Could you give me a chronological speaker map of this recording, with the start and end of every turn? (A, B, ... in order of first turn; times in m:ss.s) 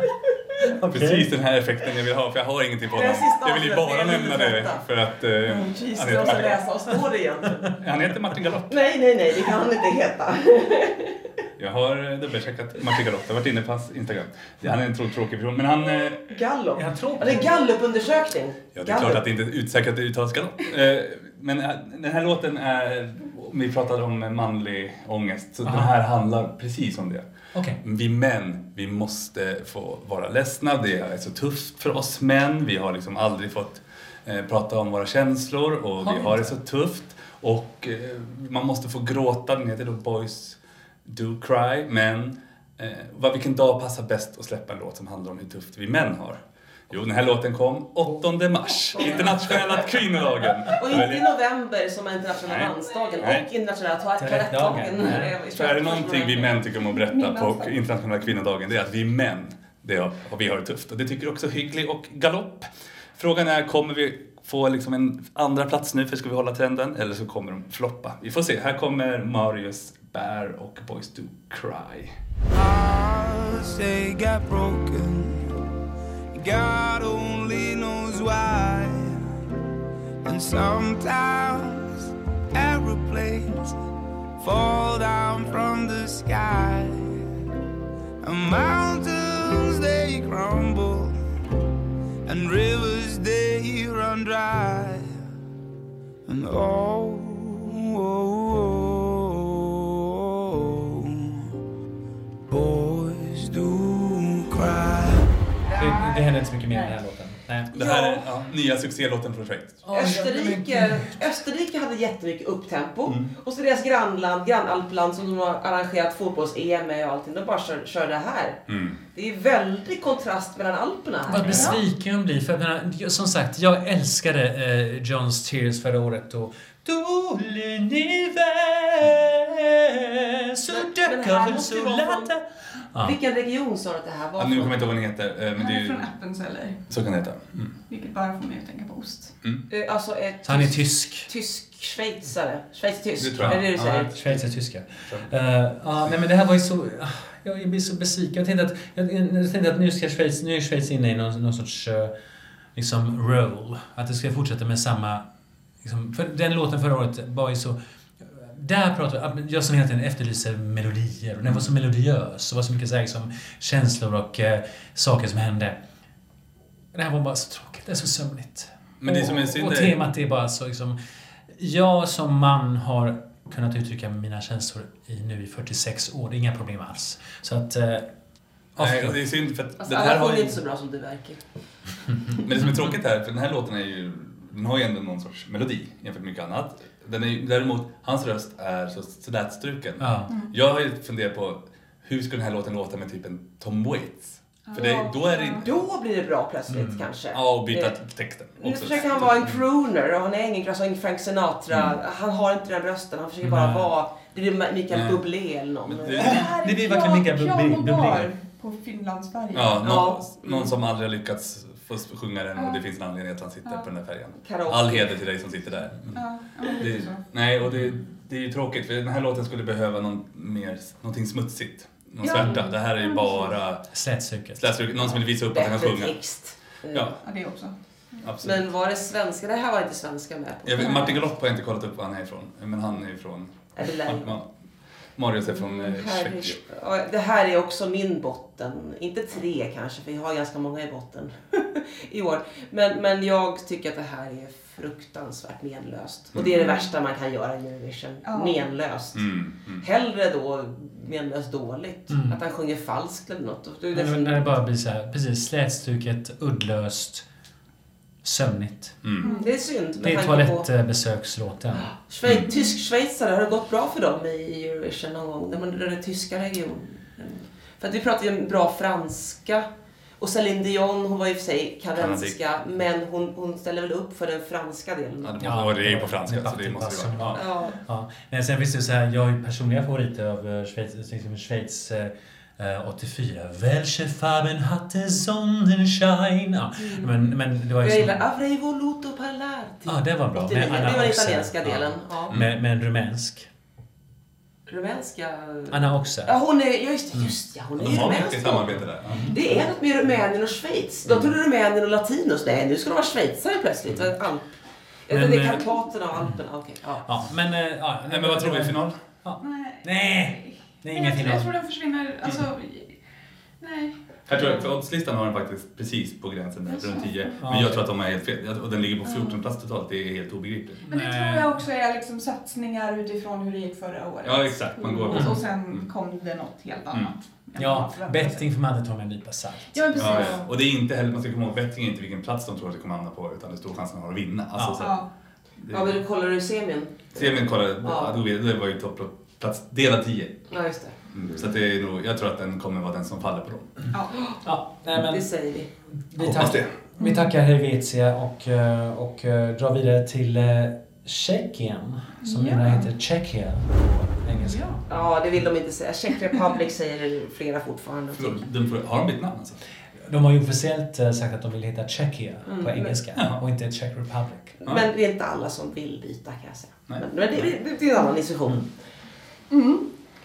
0:00.6-0:01.3 A
0:00.9-0:06.7 B
0:02.9-0:04.9 C
0:05.4-0:07.8 C
0:07.8-0:08.8 B
0:08.7-0:11.2 C
0:11.6-0:16.3 B
0:16.3-0:19.2 C
0:16.8-0:17.5 A
0:18.8-0:27.3 B
0:25.6-0:25.9 A
0:27.5-0:27.8 A
0:27.8-0:51.3 B
0:36.0-0:36.6 A
0:49.0-0:49.7 C
0:50.7-0:56.6 C
0:52.4-0:53.5 B
0:54.2-0:55.3 A
0:55.2-1:12.1 B
0:56.9-0:57.7 D
1:12.5-1:15.5 E
1:16.3-1:19.3 E
1:20.2-1:23.8 E
1:24.4-1:27.1 E
1:28.2-1:31.2 E
1:32.3-1:35.1 E
1:36.3-1:41.6 E
1:42.5-1:45.3 E
1:45.7-1:47.0 D
1:45.8-1:47.7 A
1:47.7-1:50.0 B
1:47.7-1:48.3 D
1:49.8-1:51.2 A
1:49.9-1:58.6 C
1:53.1-1:53.3 B
1:58.7-1:59.0 B
1:59.1-2:01.8 C
2:01.3-2:13.2 A
2:01.5-2:01.7 B
2:10.7-2:12.3 C
2:13.0-2:14.9 C
2:14.4-2:16.1 B
2:15.6-2:16.8 D
2:16.9-2:17.8 B
2:17.9-2:19.4 D
2:19.7-2:24.1 C
2:20.4-2:21.3 A
2:23.2-2:24.4 B
2:23.4-2:32.1 A
2:25.0-2:25.3 B
2:32.8-2:35.3 A
2:35.8-2:45.8 A
2:46.9-2:51.0 A
2:49.0-2:50.0 B
2:51.5-2:58.1 A
2:58.8-2:59.2 A
2:58.8-3:00.6 B
2:59.8-3:01.4 C
3:02.4-3:15.8 B
3:10.0-3:10.3 A
3:14.7-3:15.6 D
3:15.6-3:18.0 C
3:16.7-3:17.1 A
3:17.3-3:19.6 B
3:18.6-3:26.4 C
3:21.7-3:22.0 B
3:23.4-3:23.9 A
3:24.9-3:25.2 B
3:25.8-3:26.5 B
3:26.2-3:29.8 D
3:26.2-3:28.3 A
3:29.5-3:43.9 B
3:29.8-3:30.7 C
3:32.6-3:32.8 D
3:34.4-3:35.2 C
3:36.1-3:37.2 D
3:37.7-3:38.0 A
3:42.2-3:42.7 C
3:42.2-3:43.6 D
3:43.9-3:44.7 A
3:44.6-3:46.2 B
3:45.2-3:47.2 C
3:46.9-3:47.2 B
3:47.2-3:48.3 D
3:48.2-3:48.7 B
3:48.4-3:51.2 C
3:50.6-3:54.5 B
3:53.8-3:54.4 C
3:55.2-3:56.6 B
3:55.5-4:14.5 C
4:06.5-4:06.8 D
4:08.3-4:08.6 D
4:09.1-4:09.8 B
4:12.1-4:12.4 A
4:13.9-4:17.3 A
4:18.2-4:19.0 A
4:19.0-4:19.3 B
4:19.2-4:19.5 D
4:19.2-4:20.7 C
4:20.0-4:21.9 A
4:21.9-4:29.7 C
4:22.2-4:22.5 B
4:22.5-4:22.7 D
4:30.2-4:35.4 C
4:32.0-4:32.4 B
4:35.2-4:37.5 B
4:35.4-4:48.3 A
4:37.3-4:37.8 C
4:46.8-4:47.2 C
4:47.8-4:52.4 C
4:49.9-4:53.5 A
4:54.7-5:07.0 C
4:55.7-4:56.4 A
4:57.8-4:59.7 B
4:59.1-4:59.4 A
5:01.1-5:01.4 B
5:05.1-5:06.4 A
5:07.0-5:11.5 A
5:08.1-5:09.0 B
5:09.4-5:13.0 D
5:13.6-5:14.7 D
5:14.3-5:20.8 B
5:16.7-5:17.4 D
5:17.4-5:17.8 A
5:19.0-5:19.4 D
5:20.9-5:21.6 A
5:20.9-5:28.5 D
5:24.2-5:25.9 B
5:25.1-5:25.4 A
5:27.6-5:29.8 A
5:29.7-5:30.4 D
5:30.0-5:35.0 B
5:30.0-5:30.4 C
5:34.6-5:34.8 A
5:34.8-5:35.1 D
5:35.6-5:36.0 B
5:35.7-5:38.2 C
5:37.2-5:40.5 B
5:40.5-5:41.0 C
5:41.1-5:43.7 B
5:44.1-5:44.4 C
5:44.4-5:45.3 A
5:44.9-5:45.7 C
5:46.0-5:54.9 A
5:46.2-5:46.7 B
5:47.0-5:47.3 D
5:52.2-5:52.9 D
5:54.4-5:54.8 D
5:54.9-5:58.5 C
5:58.1-5:59.6 B
6:00.0-6:04.6 A
6:02.5-6:03.0 C
6:03.2-6:03.4 B
6:04.6-6:08.7 C
6:09.5-6:09.9 D